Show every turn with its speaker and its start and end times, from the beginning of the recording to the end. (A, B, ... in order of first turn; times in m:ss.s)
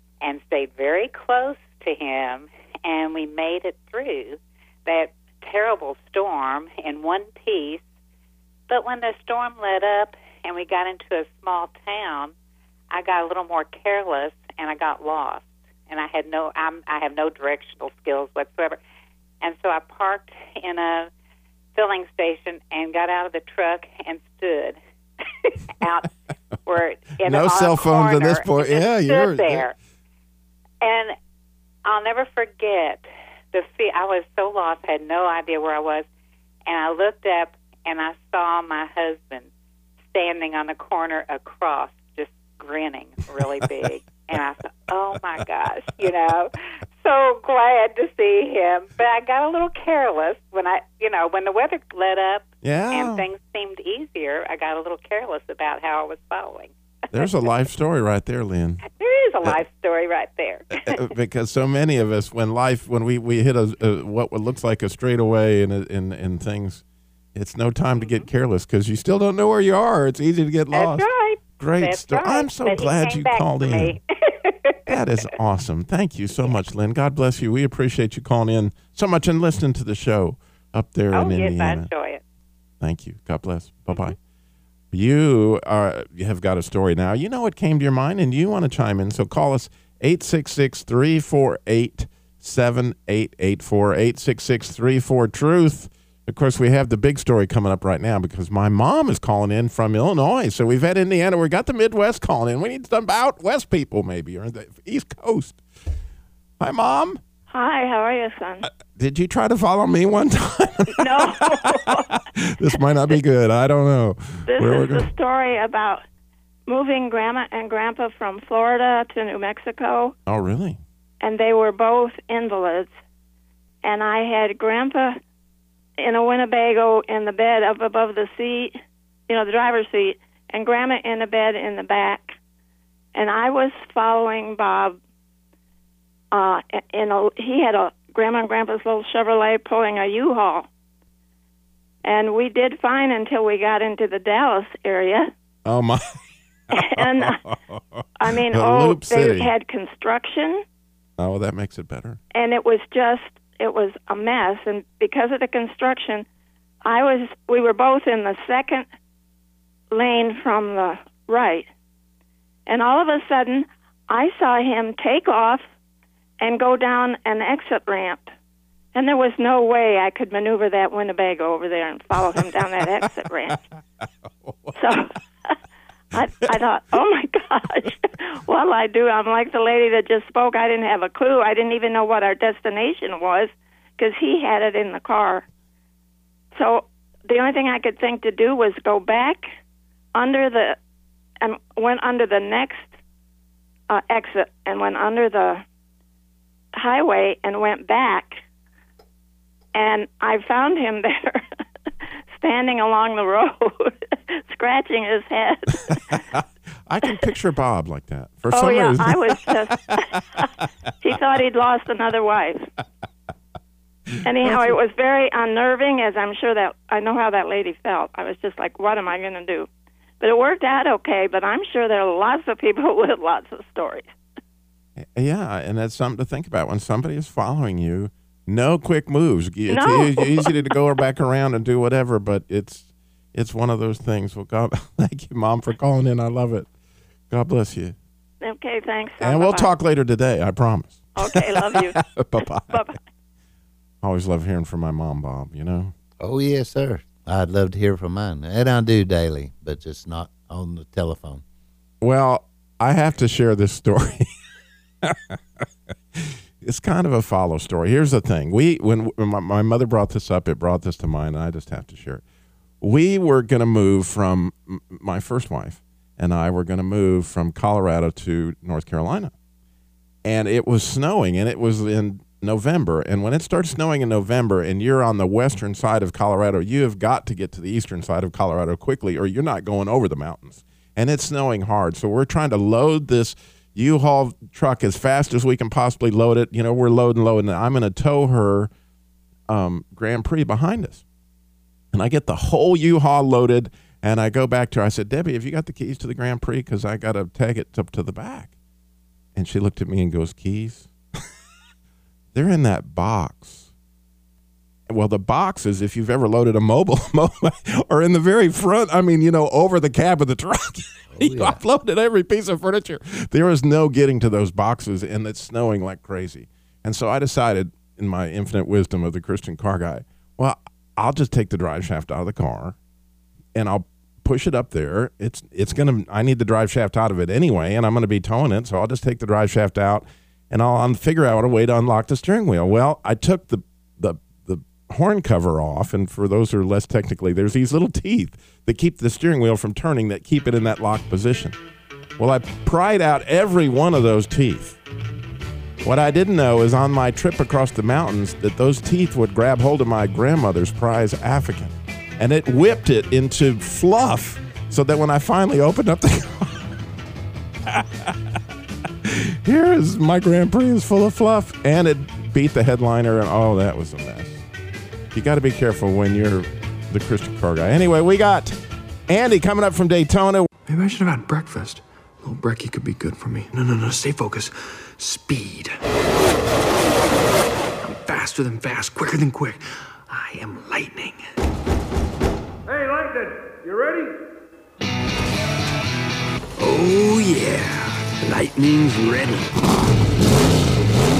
0:00.2-0:07.8 A
0:08.7-0:12.3 A
0:12.9-0:18.8 A
0:19.4-0:21.1 A
0:21.7-0:24.8 A
0:25.4-0:26.1 A
0:26.6-0:29.7 A
0:27.2-0:29.6 B
0:30.8-0:31.1 A
0:31.8-0:36.0 A
0:36.7-0:39.5 A
0:40.1-0:57.5 A
0:52.6-0:53.2 B
0:57.1-0:58.8 B
0:58.9-1:01.0 A
1:00.8-1:06.8 B
1:07.3-1:11.0 B
1:10.7-1:15.0 A
1:11.6-1:14.0 B
1:14.9-1:21.9 B
1:21.1-1:22.2 A
1:22.8-1:24.2 B
1:24.9-1:45.6 B
1:46.6-1:47.2 B
1:47.5-1:48.6 C
1:48.9-1:55.1 B
1:51.0-1:52.0 C
1:54.5-1:56.0 C
1:56.7-2:00.1 C
2:00.3-2:00.8 B
2:01.2-2:02.9 C
2:03.8-2:05.2 C
2:06.0-2:08.8 C
2:09.3-2:12.3 C
2:13.1-2:15.0 C
2:16.3-2:20.7 C
2:22.0-2:25.3 C
2:25.6-2:26.0 B
2:26.7-2:29.5 B
2:26.8-2:27.4 C
2:28.2-2:30.6 C
2:31.2-2:32.2 B
2:32.3-2:36.2 C
2:36.8-2:38.9 C
2:39.9-2:41.7 C
2:42.7-2:45.6 C
2:46.4-2:48.3 C
2:48.9-2:53.6 C
2:53.0-2:53.6 B
2:54.4-2:54.8 B
2:54.8-2:55.6 C
2:56.1-3:05.4 C
3:06.5-3:09.5 C
3:10.1-3:10.8 C
3:11.4-3:12.9 C
3:13.9-3:15.6 C
3:16.7-3:18.4 C
3:19.7-3:21.4 C
3:22.3-3:26.2 C
3:25.9-3:30.6 B
3:28.5-3:30.4 C
3:31.0-3:32.7 C
3:34.2-3:39.7 C
3:34.4-3:34.7 B
3:40.2-3:44.1 C
3:45.0-3:56.7 B
3:49.7-3:50.7 C
3:57.3-3:57.9 B
3:58.4-3:59.7 C
3:59.2-4:02.8 B
4:01.2-4:02.0 C
4:02.7-4:03.0 C
4:04.0-4:05.9 B
4:06.2-4:11.4 D
4:12.0-4:14.3 B
4:15.0-4:15.4 B
4:16.2-4:22.2 B
4:22.8-4:29.3 B
4:30.2-4:48.7 B
4:49.5-4:51.0 B
4:51.9-4:58.5 B
4:59.3-5:00.9 B
5:02.3-5:03.7 B
5:04.9-5:22.8 B
5:11.1-5:11.6 D
5:23.5-5:41.6 B
5:42.2-5:44.8 B
5:45.8-5:56.7 B
5:57.7-5:58.3 B
5:59.0-6:04.4 B
6:05.1-6:08.6 B
6:09.1-6:10.5 B
6:10.7-6:15.8 E
6:17.8-6:21.2 E
6:26.6-6:29.7 E